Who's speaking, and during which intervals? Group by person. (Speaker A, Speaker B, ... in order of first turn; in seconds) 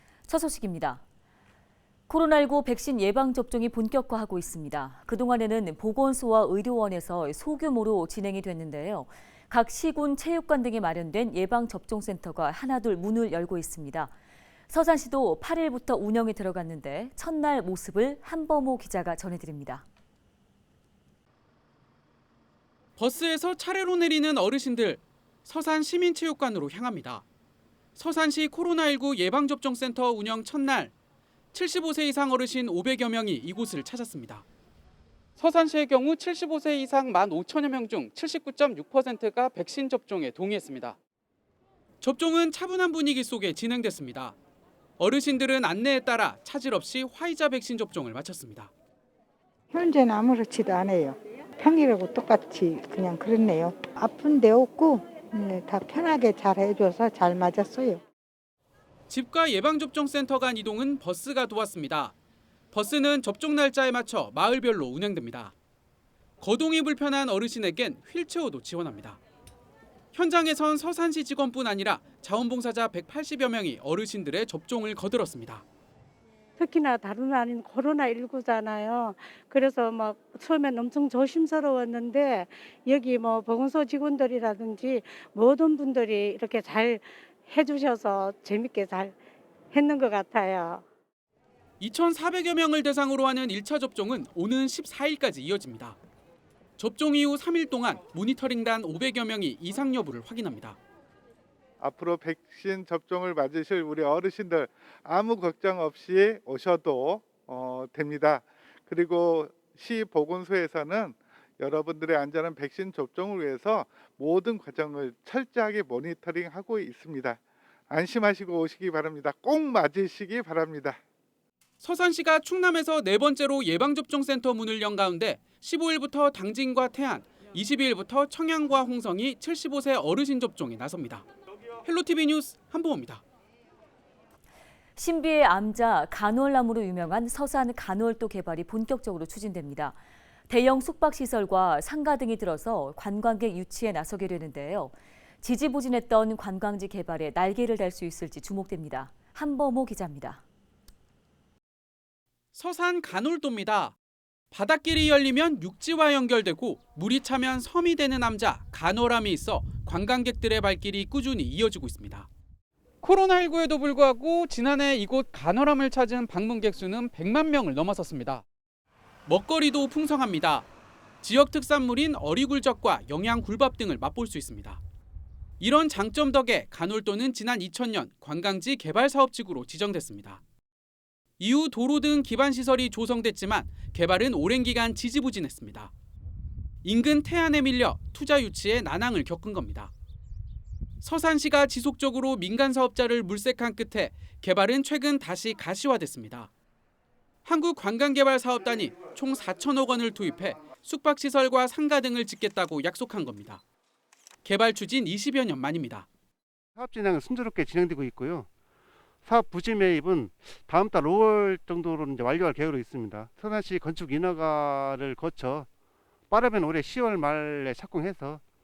Speaker A: 0.3-1.0, 2.1-14.1, 14.7-19.8, 135.0-140.0, 140.5-150.4
Speaker B: 23.0-27.2, 28.0-30.9, 31.5-34.4, 35.4-41.0, 42.0-44.4, 45.0-48.7, 59.1-62.1, 62.7-65.5, 66.4-69.2, 70.1-75.6, 91.8-96.0, 96.8-100.8, 121.8-131.2, 131.8-133.2, 152.5-153.9, 154.5-162.3, 163.0-168.4, 169.3-170.7, 171.2-174.8, 175.6-180.4, 181.4-185.9, 186.8-189.9, 191.0-196.5, 197.4-203.6, 204.4-206.1
Speaker C: 49.7-58.0
Speaker D: 76.6-89.2, 89.7-90.8
Speaker E: 101.8-117.4, 117.9-121.0
Speaker F: 206.8-208.5, 209.2-215.7, 216.3-218.4